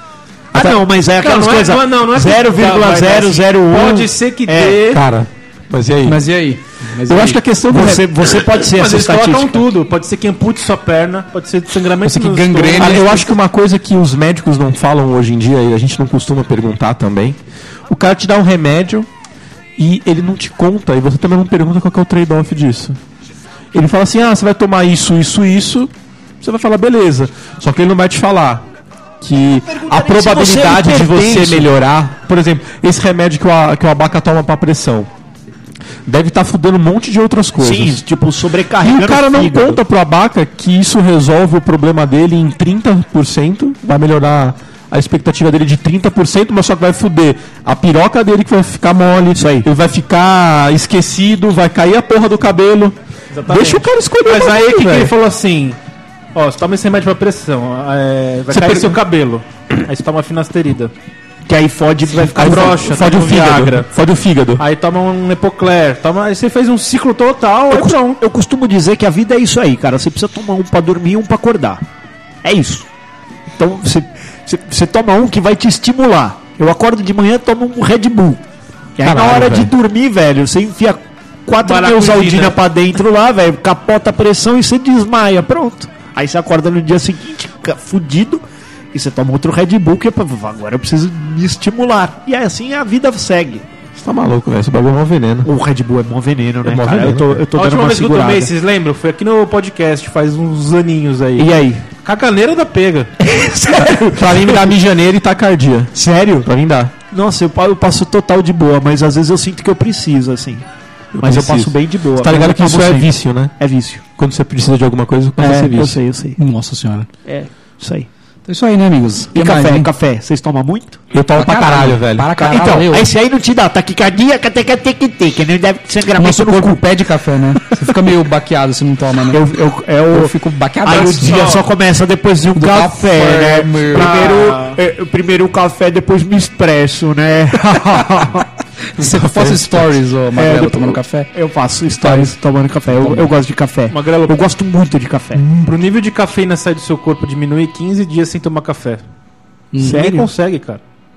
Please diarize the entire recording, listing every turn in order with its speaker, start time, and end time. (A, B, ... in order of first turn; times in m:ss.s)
0:00.5-0:04.8 A
0:01.0-0:05.0 B
0:04.9-0:06.2 C
0:06.0-0:07.4 D
0:07.0-0:08.1 C
0:07.7-0:09.7 A
0:08.6-0:13.2 B
0:12.0-0:13.2 D
0:12.8-0:19.1 C
0:19.8-0:23.0 C
0:23.7-0:25.9 C
0:26.4-0:28.7 C
0:29.2-0:35.1 C
0:29.6-0:31.7 A
0:36.0-0:38.0 C
0:37.6-0:39.8 A
0:38.8-0:55.1 C
0:49.3-0:49.7 A
0:53.3-0:55.8 B
0:56.3-1:00.9 B
0:58.5-0:59.0 C
1:01.5-1:02.9 A
1:02.1-1:03.9 B
1:02.3-1:04.6 C
1:04.6-1:08.2 B
1:07.7-1:11.8 A
1:12.4-1:12.9 A
1:13.6-1:18.4 A
1:19.0-1:28.4 A
1:19.0-1:19.7 C
1:21.6-1:22.6 B
1:28.9-1:33.6 A
1:33.9-1:35.5 C
1:35.4-1:38.5 A
1:36.6-1:37.4 C
1:37.5-1:43.1 B
1:41.4-1:41.8 A
1:43.2-1:44.7 A
1:43.8-1:46.9 C
1:45.9-1:46.5 A
1:47.1-1:50.6 A
1:51.1-1:53.5 C
1:51.2-1:54.0 A
1:54.2-1:56.0 C
1:55.4-1:56.4 A
1:56.4-1:57.1 D
1:57.2-1:58.1 A
1:58.5-1:59.9 D
1:59.3-2:01.0 A
2:01.1-2:02.3 C
2:01.4-2:03.1 D
2:02.4-2:06.8 A
2:06.1-2:09.5 D
2:09.3-2:18.5 A
2:10.1-2:11.4 D
2:11.0-2:11.6 B
2:12.5-2:14.2 D
2:13.9-2:14.8 B
2:19.0-2:21.3 D
2:19.0-2:25.4 A
2:22.0-2:23.3 D
2:23.9-2:24.4 B
2:25.4-2:29.0 B
2:29.7-2:30.0 D
2:29.8-2:30.3 A
2:29.8-2:30.8 B